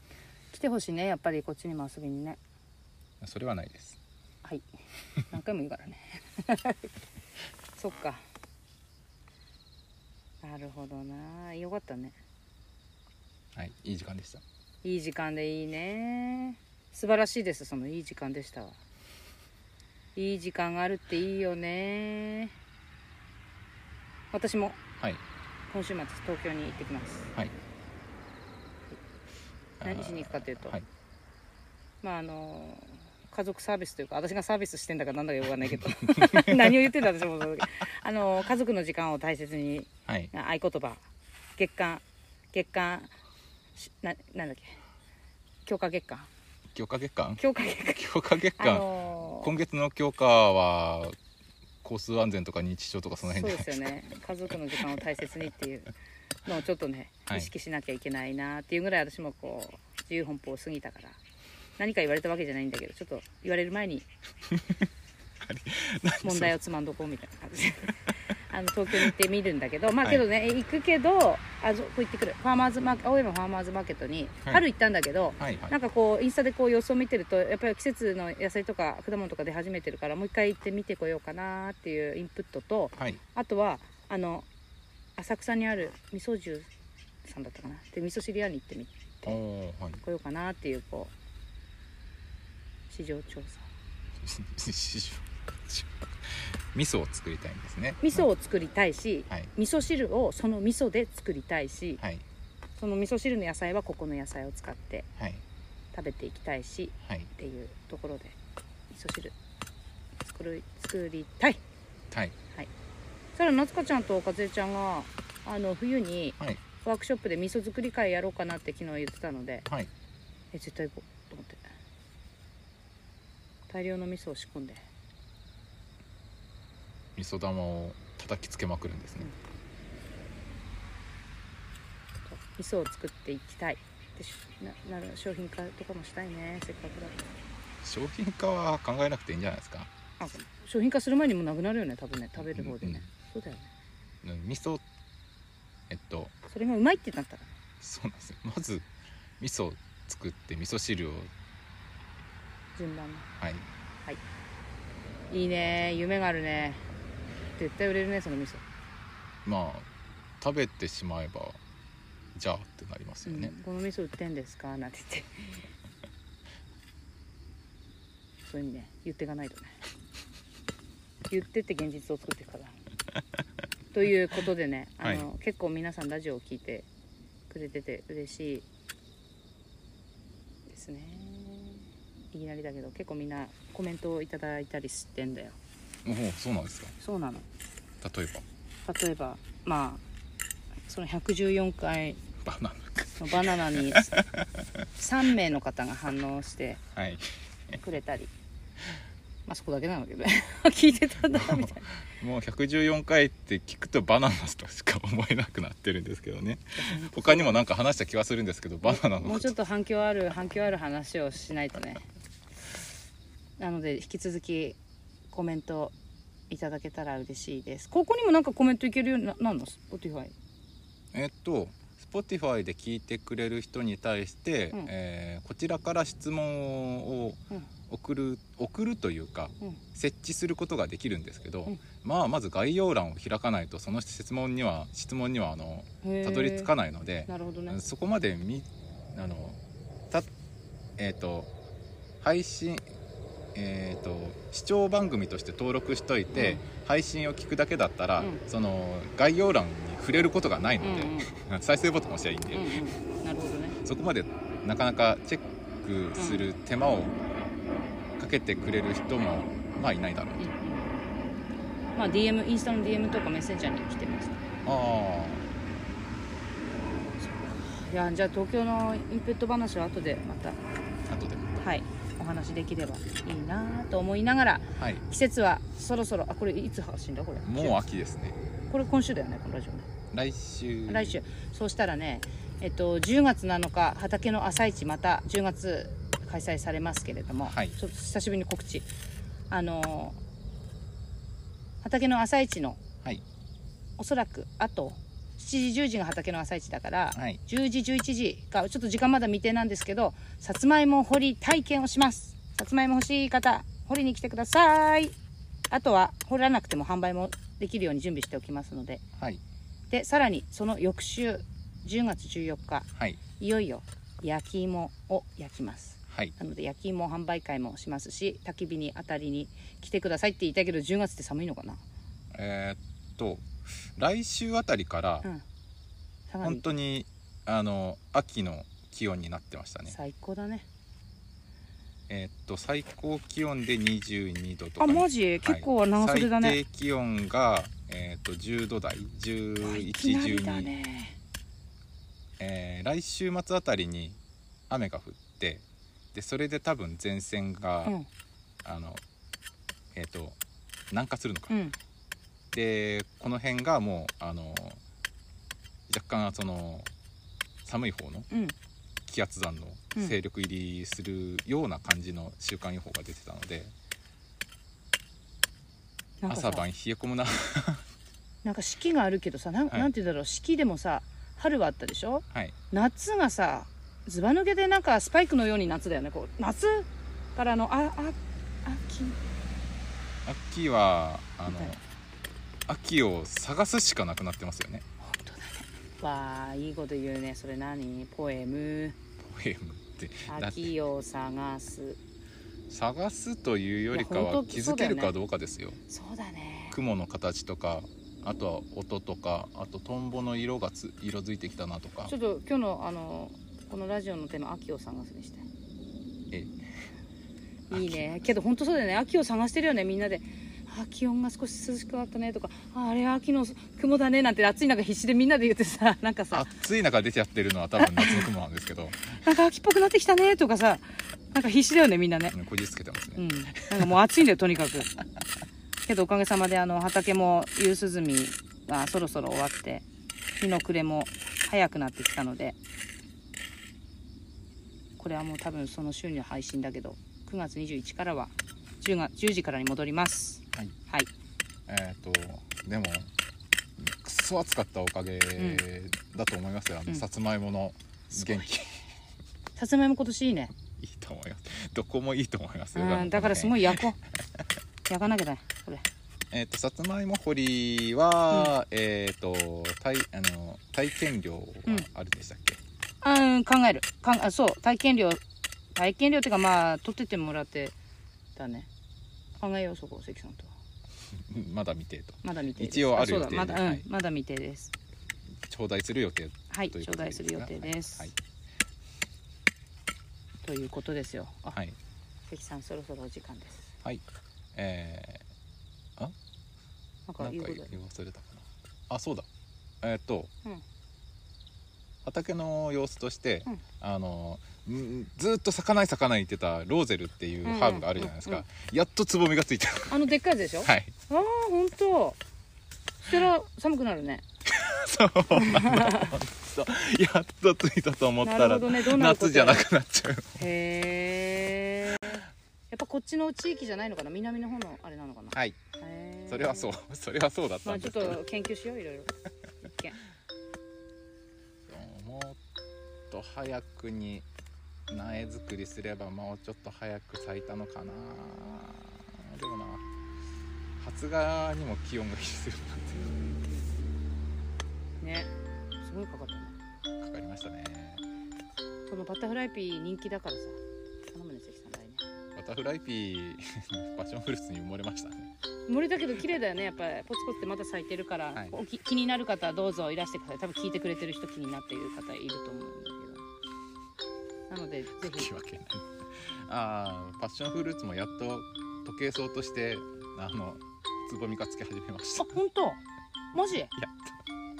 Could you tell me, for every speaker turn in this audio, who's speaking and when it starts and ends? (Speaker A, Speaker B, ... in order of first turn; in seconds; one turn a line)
Speaker A: 0.5-2.4
Speaker B: 3.2-4.0
Speaker A: 5.3-6.8
Speaker A: 7.8-8.2
Speaker A: 10.4-12.2
Speaker B: 13.5-14.4
Speaker A: 14.8-18.8
Speaker A: 20.1-22.5
Speaker A: 24.3-24.8
Speaker A: 25.7-27.3
Speaker B: 29.8-30.9
Speaker A: 29.8-30.7
Speaker A: 32.0-41.0
Speaker B: 36.2-36.7
Speaker B: 40.1-40.3
Speaker A: 41.5-43.1
Speaker A: 43.8-44.8
Speaker A: 45.6-46.3
Speaker B: 46.7-51.1
Speaker A: 47.4-48.0
Speaker A: 48.6-49.5
Speaker B: 51.8-53.8
Speaker A: 53.2-55.9
Speaker A: 56.4-61.2
Speaker A: 61.8-64.1
Speaker B: 64.5-64.9
Speaker B: 65.4-66.5
Speaker A: 66.2-84.5
Speaker B: 75.4-75.7
Speaker A: 85.2-86.7
Speaker A: 87.2-89.4
Speaker B: 89.2-90.0
Speaker A: 90.0-91.1
Speaker A: 92.9-93.7
Speaker B: 94.2-98.3
Speaker A: 98.0-102.0
Speaker B: 102.0-102.2
Speaker A: 102.8-105.1
Speaker B: 105.2-105.4
Speaker A: 105.9-108.3
Speaker B: 107.0-107.3
Speaker A: 108.9-109.3
Speaker A: 110.2-111.6
Speaker B: 112.1-112.3
Speaker A: 113.3-119.7
Speaker A: 120.5-121.6
Speaker A: 123.7-124.8
Speaker B: 127.2-129.3
Speaker A: 132.3-137.2
Speaker B: 137.8-139.9
Speaker A: 140.2-143.7
Speaker B: 142.4-143.0
Speaker B: 144.2-144.8
Speaker B: 145.9-146.3
Speaker A: 146.5-147.5
Speaker B: 147.8-148.9
Speaker B: 149.4-151.3
Speaker A: 152.8-153.3
Speaker B: 153.4-153.7
Speaker A: 155.3-156.8
Speaker A: 157.6-158.6
Speaker B: 159.4-159.9
Speaker B: 160.4-161.6
Speaker B: 162.3-163.5
Speaker A: 163.2-165.6
Speaker A: 168.4-169.7
Speaker A: 171.3-172.8
Speaker A: 173.9-176.9
Speaker B: 175.0-175.3
Speaker A: 177.5-178.6
Speaker A: 180.7-185.6
Speaker B: 186.0-186.9
Speaker A: 187.0-187.4
Speaker B: 188.0-188.4
Speaker A: 188.8-190.0
Speaker A: 190.9-192.2
Speaker B: 192.4-194.8
Speaker A: 193.2-194.1
Speaker A: 194.9-196.8
Speaker B: 196.9-197.3
Speaker A: 197.8-198.3
Speaker A: 199.4-201.8
Speaker B: 201.3-209.5
Speaker A: 206.8-207.7
Speaker A: 208.8-212.0
Speaker A: 213.6-214.8
Speaker A: 215.3-215.9
Speaker A: 216.5-220.3
Speaker B: 221.1-239.6
Speaker A: 236.0-236.7
Speaker A: 237.3-237.8
Speaker B: 241.0-241.5
Speaker B: 242.2-242.8
Speaker B: 243.5-252.8
Speaker A: 246.3-246.6
Speaker A: 250.8-251.3
Speaker A: 252.5-253.8
Speaker B: 253.8-257.1
Speaker A: 256.2-256.4
Speaker B: 258.2-260.5
Speaker A: 260.4-261.0
Speaker A: 261.9-264.4
Speaker B: 264.6-265.5
Speaker A: 267.2-270.6
Speaker B: 271.1-271.6
Speaker A: 271.6-277.9
Speaker B: 274.8-275.0
Speaker B: 277.4-278.4
Speaker A: 278.7-279.9
Speaker B: 280.1-281.2
Speaker A: 280.9-288.9
Speaker B: 287.4-287.8
Speaker A: 289.5-290.2
Speaker A: 291.8-292.8
Speaker A: 294.0-305.1
Speaker B: 297.1-297.4
Speaker A: 305.7-309.0
Speaker B: 309.2-309.4
Speaker A: 309.9-321.8
Speaker B: 316.1-316.3
Speaker B: 322.3-325.3
Speaker A: 326.3-326.6
Speaker B: 326.4-329.9
Speaker A: 329.9-330.6
Speaker B: 332.1-340.7
Speaker A: 334.8-336.6
Speaker A: 339.6-341.1
Speaker B: 342.4-347.9
Speaker B: 348.6-349.0
Speaker B: 349.9-350.4
Speaker B: 350.9-351.5
Speaker A: 351.5-351.8
Speaker B: 352.5-354.8
Speaker B: 355.9-356.9
Speaker B: 357.6-358.3
Speaker B: 359.1-363.7
Speaker A: 366.2-366.6
Speaker B: 366.3-367.8
Speaker A: 368.4-379.2
Speaker B: 380.2-381.8
Speaker A: 381.5-381.8
Speaker B: 382.7-384.8
Speaker A: 385.0-388.9
Speaker B: 389.2-390.7
Speaker A: 390.3-392.0
Speaker B: 392.7-395.8
Speaker A: 393.9-395.1
Speaker A: 395.9-396.8
Speaker B: 396.7-402.1
Speaker A: 402.1-405.4
Speaker B: 406.3-406.6
Speaker B: 407.7-408.3
Speaker A: 407.7-416.5
Speaker B: 416.3-419.1
Speaker A: 417.8-418.3
Speaker A: 419.2-422.3
Speaker B: 422.3-423.9
Speaker A: 423.1-424.9
Speaker A: 425.9-429.8
Speaker A: 430.4-432.6
Speaker A: 435.0-441.1
Speaker B: 441.7-443.1
Speaker B: 443.8-448.8
Speaker A: 445.4-445.6
Speaker A: 448.1-448.5
Speaker A: 449.6-450.5
Speaker B: 450.8-453.8
Speaker A: 452.7-454.0
Speaker A: 454.9-455.8
Speaker B: 456.3-462.6
Speaker A: 463.0-465.2
Speaker A: 465.7-467.7
Speaker A: 468.4-468.7
Speaker A: 469.4-470.5
Speaker B: 471.1-473.8
Speaker A: 472.2-474.7
Speaker B: 475.5-478.1
Speaker A: 476.5-478.1
Speaker A: 480.4-481.6
Speaker A: 482.3-483.7
Speaker B: 484.5-485.2
Speaker A: 487.1-487.7
Speaker B: 487.2-489.3
Speaker B: 489.8-490.3
Speaker B: 492.0-500.0
Speaker A: 497.4-498.4
Speaker A: 499.9-502.2
Speaker B: 500.6-500.9
Speaker A: 503.0-504.2
Speaker B: 504.4-510.4
Speaker A: 505.3-506.1
Speaker A: 508.2-509.6
Speaker A: 510.4-516.7
Speaker B: 515.3-515.6
Speaker B: 516.3-518.2
Speaker A: 517.6-519.1
Speaker A: 519.7-520.0
Speaker B: 521.7-522.4
Speaker B: 523.1-524.3
Speaker B: 524.9-529.8
Speaker B: 530.8-533.1
Speaker A: 533.0-533.9
Speaker A: 535.0-536.5
Speaker B: 537.0-538.0
Speaker A: 538.9-542.0
Speaker B: 542.3-545.3
Speaker A: 545.7-553.2
Speaker A: 554.5-555.3
Speaker B: 554.9-562.3
Speaker A: 562.2-562.8
Speaker A: 563.3-563.7
Speaker B: 563.7-564.1